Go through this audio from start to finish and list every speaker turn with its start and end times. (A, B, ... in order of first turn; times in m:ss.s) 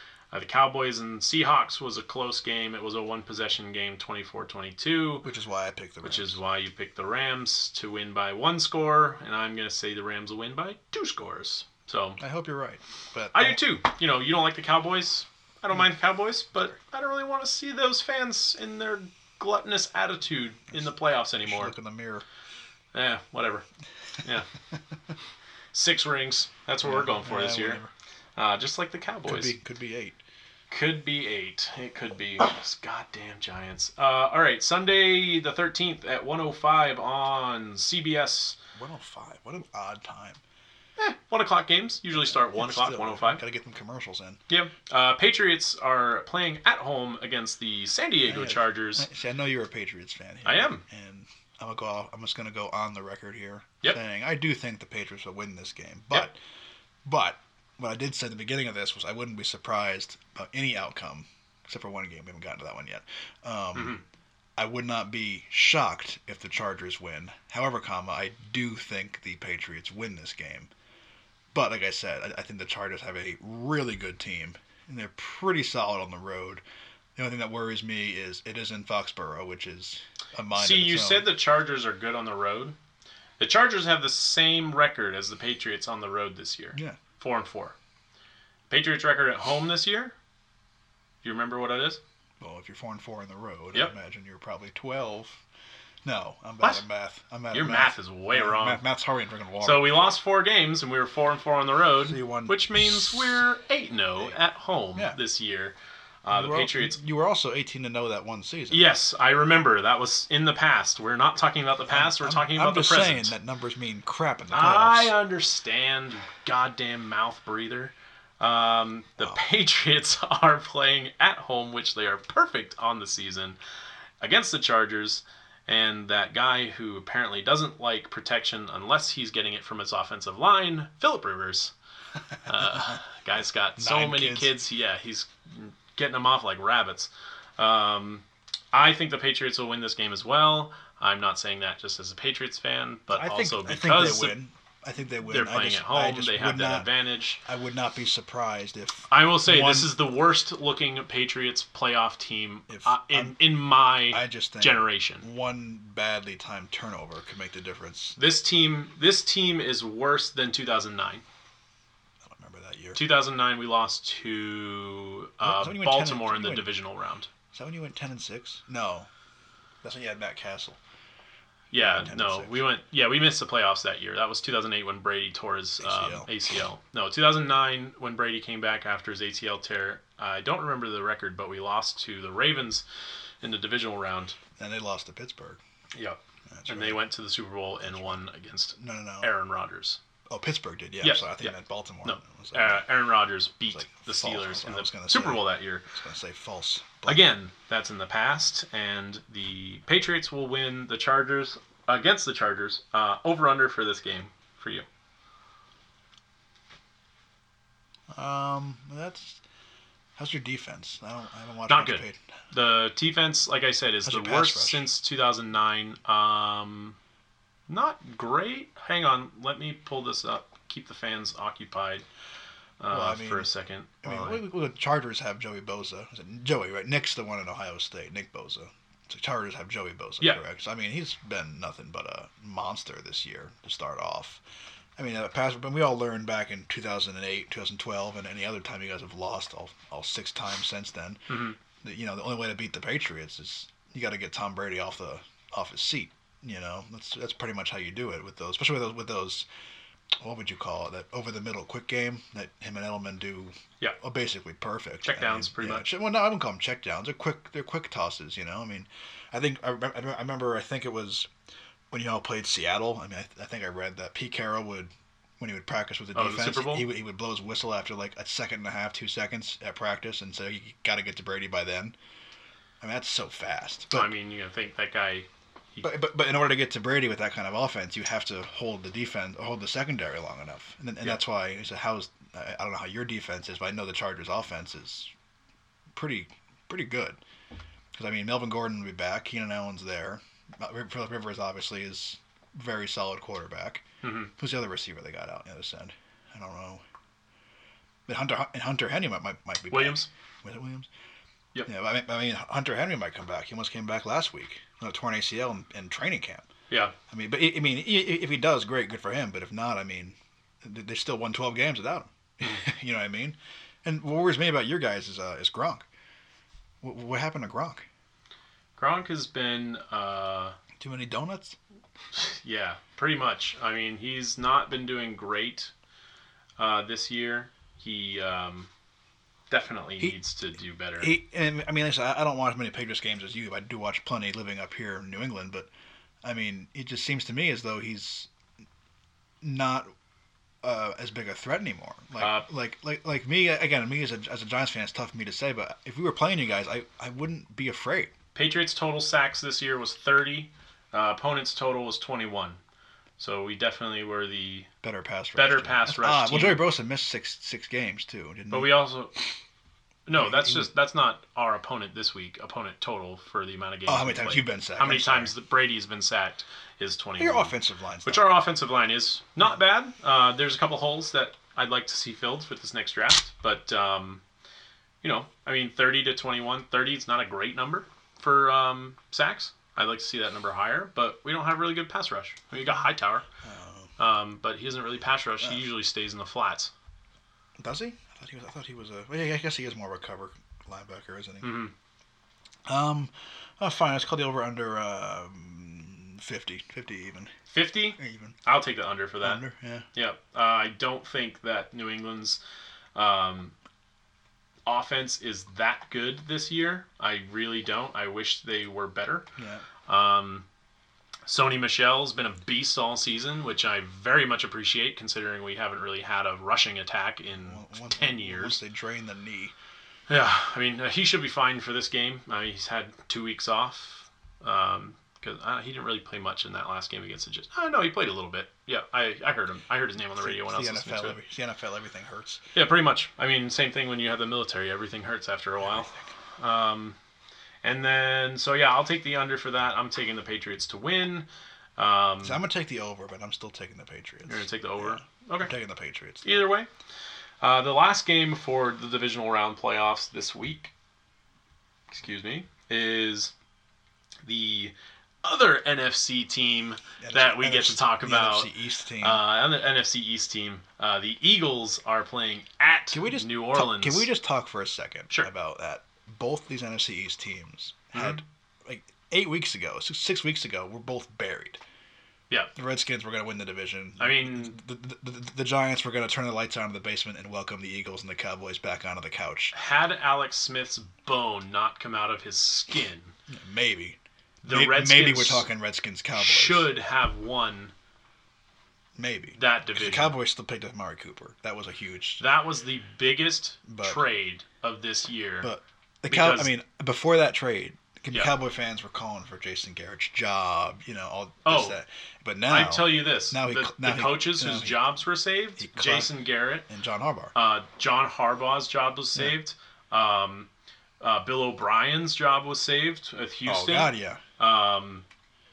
0:00.3-0:05.2 A
0:05.2-0:06.4 B
0:06.0-0:12.2 A
0:12.2-0:13.6 B
0:13.3-0:21.7 A
0:21.4-0:22.2 B
0:22.9-0:23.6 A
0:24.2-0:24.5 A
0:25.7-0:27.8 A
0:26.8-0:27.9 B
0:28.4-0:29.5 A
0:29.2-0:30.2 B
0:30.7-0:38.6 A
0:38.7-0:40.4 B
0:41.0-0:43.4 A
0:42.1-0:44.4 B
0:44.5-0:49.1 A
0:48.3-0:56.4 B
0:50.4-0:50.8 A
0:57.0-1:04.0 B
1:03.7-1:04.0 A
1:04.6-1:10.7 B
1:11.5-1:16.6 B
1:17.2-1:21.3 B
1:20.5-1:22.8 A
1:23.4-1:27.7 A
1:28.7-1:30.1 A
1:31.2-1:32.0 A
1:32.4-1:35.4 B
1:36.0-1:40.0 B
1:37.5-1:38.8 A
1:39.6-1:47.0 A
1:42.0-1:43.4 B
1:46.3-1:48.9 B
1:48.7-1:53.3 A
1:51.9-1:55.1 B
1:54.5-2:03.6 A
2:04.2-2:11.7 A
2:12.4-2:24.4 A
2:12.5-2:13.0 B
2:13.8-2:14.5 B
2:23.1-2:26.9 B
2:25.2-2:27.4 A
2:27.4-2:29.9 B
2:29.1-2:35.2 A
2:32.7-2:33.4 B
2:34.1-2:38.2 B
2:38.2-2:41.2 A
2:42.2-2:43.0 B
2:42.9-2:47.3 A
2:45.4-2:46.7 B
2:47.5-2:49.1 B
2:49.8-2:50.8 B
2:51.7-3:02.8 A
2:51.7-2:52.6 B
2:55.8-2:56.3 B
3:03.4-3:04.4 A
3:04.6-3:05.6 B
3:05.9-3:10.0 A
3:06.5-3:07.0 B
3:07.8-3:09.3 B
3:10.3-3:12.8 B
3:11.0-3:15.8 A
3:13.6-3:17.3 B
3:17.1-3:24.8 A
3:28.1-3:29.4 B
3:30.2-3:32.2 B
3:31.7-3:37.0 A
3:34.0-3:34.9 B
3:37.7-3:42.0 A
3:42.8-3:44.4 A
3:42.9-3:43.5 B
3:44.0-3:54.4 B
3:55.0-4:09.5 B
4:01.3-4:01.6 A
4:10.2-4:21.3 B
4:15.0-4:15.8 A
4:21.9-4:32.0 B
4:26.1-4:26.9 A
4:32.8-4:34.1 B
4:33.9-4:35.9 A
4:35.8-4:45.1 B
4:45.9-4:47.2 B
4:47.9-4:56.8 B
4:54.0-4:54.3 A
4:58.1-5:00.9 B
4:59.7-5:00.1 A
5:01.6-5:06.5 B
5:07.1-5:15.9 B
5:16.8-5:17.8 B
5:18.8-5:20.6 A
5:20.8-5:21.6 B
5:22.1-5:25.7 A
5:26.6-5:28.7 A
5:29.5-5:31.1 A
5:31.0-5:35.7 B
5:36.2-5:38.3 B
5:39.4-5:39.9 B
5:40.6-5:48.1 B
5:42.2-5:42.4 A
5:48.3-5:52.6 A
5:53.2-5:54.7 A
5:54.8-5:58.8 B
5:55.3-5:56.7 A
5:58.5-5:59.1 A
6:00.0-6:14.2 A
6:00.1-6:00.7 B
6:03.9-6:05.3 B
6:07.2-6:08.3 B
6:15.0-6:23.2 A
6:23.4-6:23.9 B
6:24.0-6:26.7 A
6:27.6-6:31.6 B
6:31.4-6:31.7 A
6:32.6-6:37.3 B
6:37.5-6:39.4 A
6:38.0-6:38.4 B
6:39.2-6:39.9 B
6:39.9-6:42.4 A
6:42.9-6:43.5 A
6:44.6-6:49.2 A
6:49.4-6:49.6 B
6:49.9-6:50.4 A
6:51.3-6:58.6 A
6:57.3-6:59.5 B
7:00.1-7:11.2 A
7:10.2-7:12.4 B
7:12.5-7:17.0 A
7:15.6-7:16.1 B
7:17.6-7:21.2 A
7:21.8-7:22.4 A
7:22.2-7:26.5 B
7:24.3-7:25.5 A
7:26.2-7:26.7 A
7:27.4-7:30.7 A
7:31.9-7:33.3 A
7:34.2-7:44.1 A
7:37.0-7:39.2 B
7:42.9-7:51.6 B
7:47.9-7:48.2 A
7:52.5-7:59.5 B
7:54.0-7:54.6 A
7:59.5-8:03.1 A
8:03.3-8:06.7 B
8:04.4-8:05.5 A
8:06.1-8:07.7 A
8:08.9-8:12.2 B
8:09.4-8:10.2 A
8:12.2-8:15.5 A
8:13.7-8:14.1 B
8:15.4-8:24.9 B
8:16.1-8:16.5 A
8:21.4-8:21.8 A
8:22.4-8:26.6 A
8:25.6-8:27.3 B
8:27.3-8:30.5 A
8:31.0-8:35.0 A
8:33.4-8:34.2 B